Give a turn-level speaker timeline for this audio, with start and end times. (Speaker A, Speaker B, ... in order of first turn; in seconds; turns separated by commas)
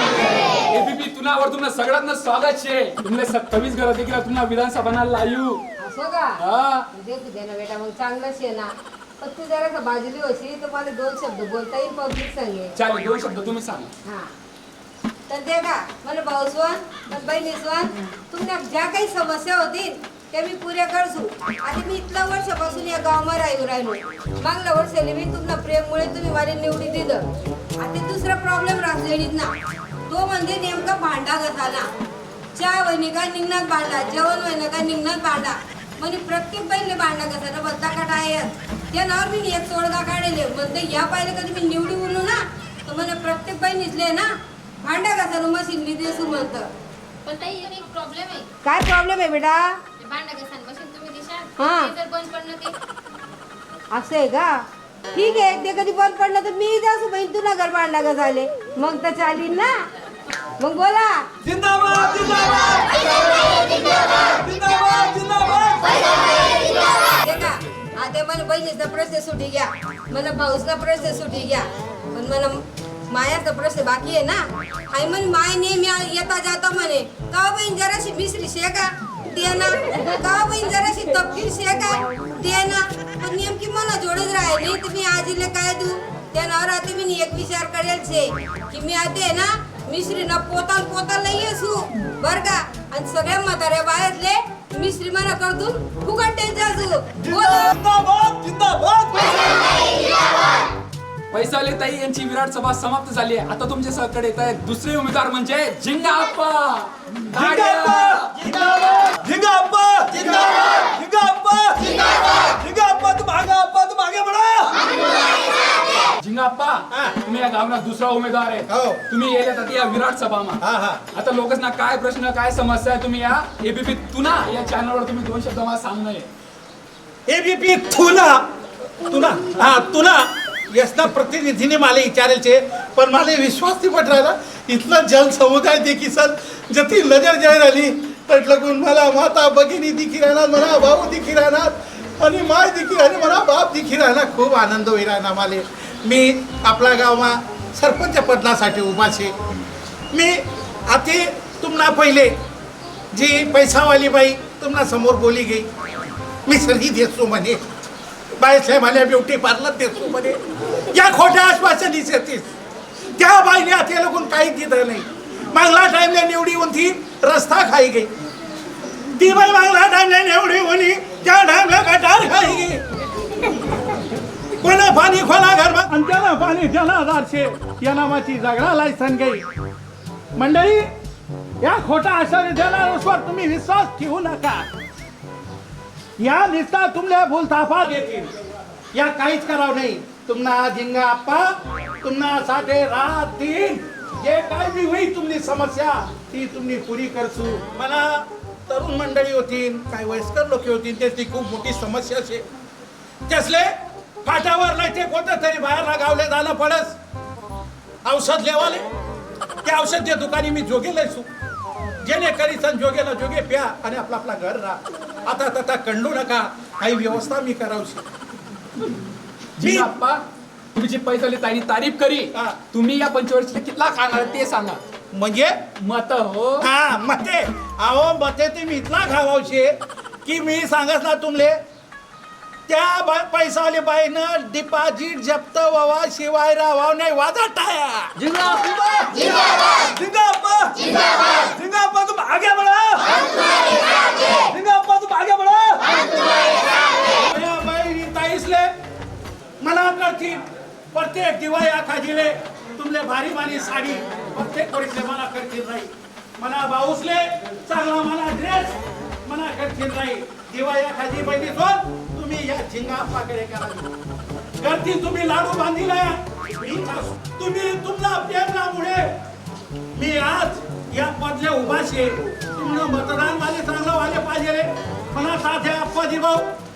Speaker A: 0.2-5.6, Speaker B: 5.8-6.4, Speaker A: 6.4-6.9, Speaker B: 6.9-12.7, Speaker A: 12.8-13.9, Speaker B: 14.0-14.3, Speaker B: 15.3-27.3, Speaker B: 27.8-29.5, Speaker B: 30.1-31.9, Speaker B: 32.5-44.3, Speaker B: 44.8-46.7, Speaker C: 47.2-48.5, Speaker B: 48.6-49.7, Speaker C: 50.0-52.7, Speaker B: 51.6-51.9, Speaker B: 53.9-54.6, Speaker B: 55.1-59.8, Speaker B: 60.6-61.2, Speaker D: 61.4-62.8, Speaker D: 64.4-65.9, Speaker B: 67.0-97.7, Speaker D: 97.2-99.2, Speaker A: 101.3-108.5, Speaker D: 107.4-108.3, Speaker D: 109.2-111.7, Speaker D: 112.6-114.7, Speaker A: 116.2-120.6, Speaker E: 116.9-117.2, Speaker E: 118.7-119.0, Speaker E: 120.6-121.0, Speaker A: 121.1-126.3, Speaker E: 127.3-128.5, Speaker E: 129.1-149.3, Speaker E: 150.1-152.3, Speaker E: 153.1-155.7, Speaker E: 156.4-157.6, Speaker E: 158.4-162.5, Speaker E: 163.2-168.1, Speaker E: 169.1-172.8, Speaker E: 174.6-179.4, Speaker E: 180.3-180.9, Speaker E: 181.6-184.7, Speaker E: 186.2-188.3, Speaker E: 188.9-202.5, Speaker E: 203.3-207.0, Speaker E: 208.0-208.9, Speaker E: 209.6-211.3, Speaker E: 212.0-218.1, Speaker A: 219.6-220.2, Speaker E: 219.6-219.9, Speaker A: 220.7-224.8, Speaker E: 225.1-225.6, Speaker A: 225.8-226.7, Speaker E: 226.6-231.6, Speaker E: 232.7-238.1, Speaker D: 238.2-239.2, Speaker D: 239.9-240.8, Speaker D: 241.5-243.1, Speaker D: 244.5-245.8, Speaker E: 247.2-248.7, Speaker E: 249.6-263.9, Speaker E: 264.6-269.1, Speaker E: 269.9-276.5